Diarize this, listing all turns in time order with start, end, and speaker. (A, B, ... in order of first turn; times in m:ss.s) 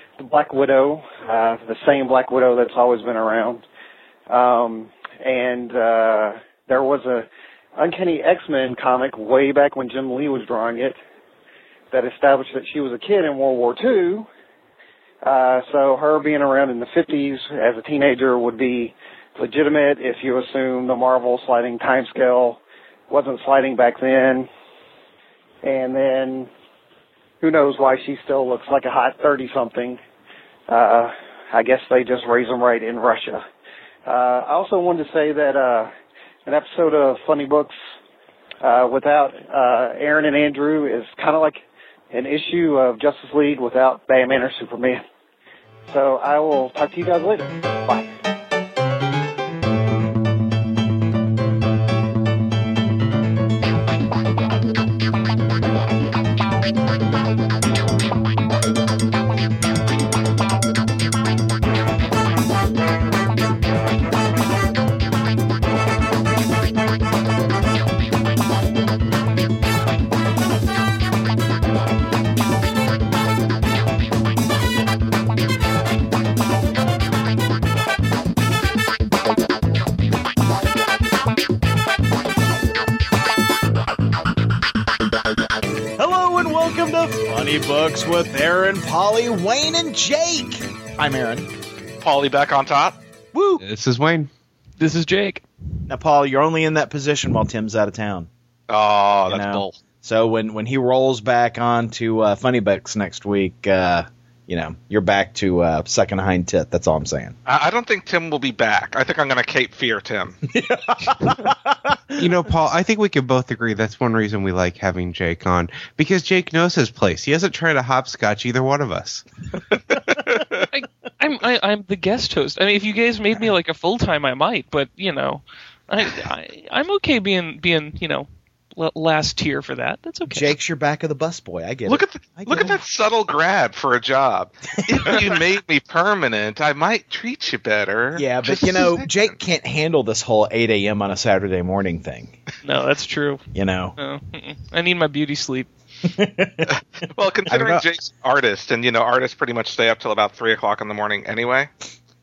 0:00.2-0:03.6 A
0:04.3-0:11.0 A
0:11.9-0:14.3 A
0:15.2-0:24.5 A
0:25.6-0:26.5 A
0:27.4-0:30.0 A
0:30.7-0:33.4 A
0:34.1-0:35.9 A
0:36.4-0:37.7 A
0:38.6-0:41.6 A
0:42.1-0:45.0 A
0:45.9-0:48.1 A
1:26.0-1:31.5 B
1:32.0-1:33.0 C
1:33.3-1:33.6 B
1:33.6-1:34.3 D
1:34.8-1:35.4 E
1:35.9-1:38.3 B
1:38.7-1:39.8 C
1:39.3-1:47.4 B
1:47.5-1:50.4 C
1:50.5-1:52.3 B
1:52.2-1:59.2 D
2:00.7-2:10.5 E
2:10.3-2:12.8 B
2:11.9-2:19.3 C
2:14.9-2:15.3 B
2:18.2-2:22.4 B
2:22.6-2:23.4 E
2:23.6-2:24.0 B
2:24.0-2:25.7 E
2:26.0-2:26.8 B
2:27.1-2:31.7 C
2:27.5-2:27.8 B